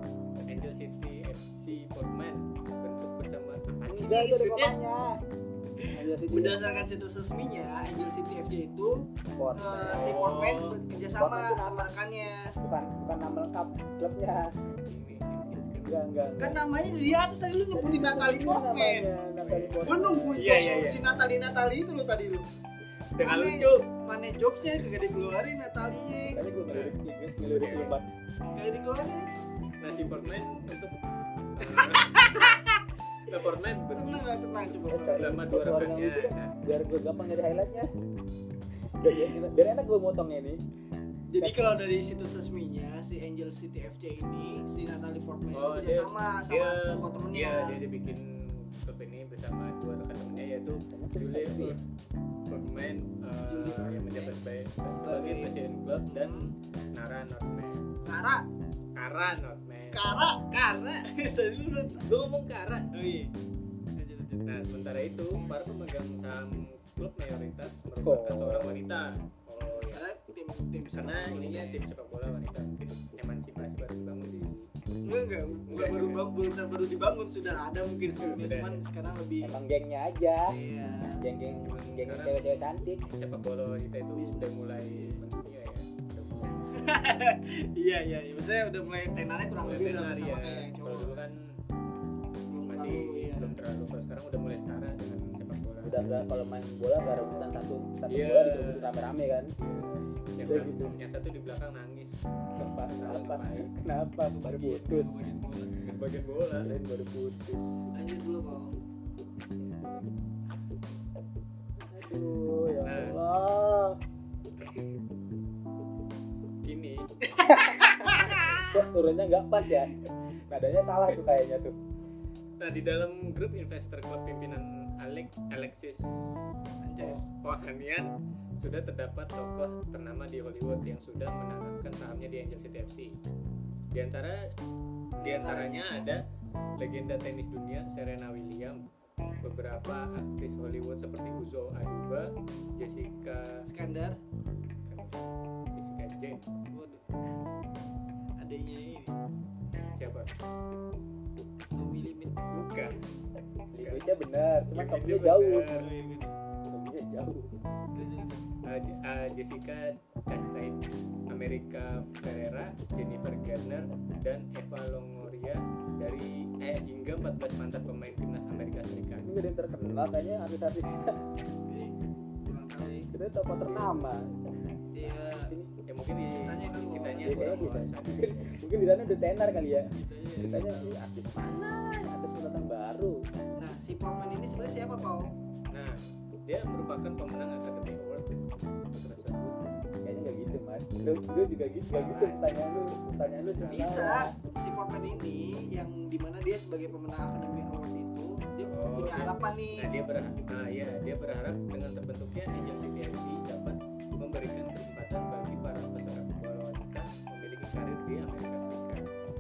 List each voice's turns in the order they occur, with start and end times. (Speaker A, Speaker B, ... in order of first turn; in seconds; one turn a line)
Speaker A: 0.5-4.8
Speaker B: 3.9-5.2
Speaker C: 5.8-9.1
Speaker B: 5.9-6.6
Speaker B: 9.4-10.2
Speaker C: 9.6-12.6
Speaker A: 9.9-10.8
Speaker B: 11.2-11.9
Speaker B: 12.6-14.5
Speaker A: 14.6-16.0
Speaker B: 15.8-16.6
Speaker C: 16.4-19.1
Speaker B: 17.7-20.5
Speaker A: 19.4-19.8
Speaker C: 19.8-22.5
Speaker A: 20.4-21.1
Speaker A: 23.2-23.9
Speaker C: 23.2-26.4
Speaker B: 26.3-28.1
Speaker A: 26.7-26.9
Speaker A: 27.5-28.0
Speaker C: 28.5-29.3
Speaker A: 29.8-30.9
Speaker B: 29.9-30.3
Speaker A: 31.6-32.6
Speaker C: 31.6-32.8
Speaker A: 33.3-34.2
Speaker C: 34.0-35.5
Speaker B: 34.9-37.9
Speaker A: 35.1-36.5
Speaker B: 39.0-40.6
Speaker C: 41.3-47.8
Speaker B: 41.4-41.8
Speaker A: 45.5-51.8
Speaker B: 50.3-51.8
Speaker A: 52.5-57.8
Speaker C: 53.5-54.3
Speaker C: 54.9-55.5
Speaker C: 56.1-56.5
Speaker C: 58.1-58.4
Speaker A: 59.0-61.1
Speaker C: 59.9-60.4
Speaker C: 61.1-62.1
Speaker A: 62.0-62.9
Speaker C: 62.9-63.3
Speaker C: 64.0-64.5
Speaker A: 64.5-70.0
Speaker B: 68.0-68.8
Speaker C: 69.6-71.8
Speaker A: 70.9-74.7
Speaker C: 75.0-79.6
Speaker A: 75.7-76.3
Speaker A: 78.2-78.8
Speaker B: 79.4-80.5
Speaker C: 80.5-81.2
Speaker B: 81.1-83.1
Speaker A: 81.7-87.2
Speaker C: 84.1-85.2
Speaker C: 86.7-91.2
Speaker A: 89.6-91.4
Speaker C: 92.5-93.5
Speaker A: 92.7-96.0
Speaker B: 95.8-99.5
Speaker A: 97.0-97.5
Speaker A: 98.1-98.9
Speaker A: 99.6-102.1
Speaker B: 100.4-101.0
Speaker B: 102.6-105.3
Speaker A: 102.9-103.7
Speaker C: 103.1-103.4
Speaker C: 104.2-105.8
Speaker A: 105.8-106.7
Speaker B: 106.6-107.9
Speaker C: 107.9-108.8
Speaker A: 109.6-110.1
Speaker B: 111.9-114.0
Speaker A: 112.8-113.2
Speaker A: 116.6-117.0
Speaker C: 117.2-118.7
Speaker B: 117.5-119.9
Speaker B: 120.5-121.8
Speaker A: 122.6-126.1
Speaker C: 126.8-127.2
Speaker A: 127.0-133.2
Speaker A: 133.9-134.4
Speaker C: 135.2-136.1
Speaker A: 135.2-136.2
Speaker A: 136.8-138.8
Speaker A: 139.4-143.6
Speaker C: 143.6-144.2
Speaker A: 144.9-146.4
Speaker C: 146.7-147.2
Speaker C: 148.4-149.1
Speaker A: 150.0-150.3
Speaker C: 151.7-152.4
Speaker A: 152.5-153.0
Speaker B: 153.7-155.7
Speaker A: 153.8-154.1
Speaker A: 154.7-155.9
Speaker C: 155.8-156.3
Speaker B: 156.7-157.5
Speaker C: 157.9-158.4
Speaker A: 158.7-160.8
Speaker A: 161.3-169.3
Speaker B: 169.2-171.2
Speaker C: 171.7-173.1
Speaker B: 173.1-174.3
Speaker A: 173.6-174.0
Speaker C: 174.9-175.5
Speaker B: 175.0-175.7
Speaker A: 175.9-178.6
Speaker C: 176.3-177.9
Speaker B: 177.2-179.9
Speaker C: 179.9-181.0
Speaker B: 180.4-183.2
Speaker C: 183.6-185.3
Speaker A: 185.7-188.4
Speaker A: 189.0-189.6
Speaker B: 190.0-194.3
Speaker A: 191.9-192.7
Speaker A: 193.2-194.1
Speaker C: 193.7-200.2
Speaker A: 198.7-209.1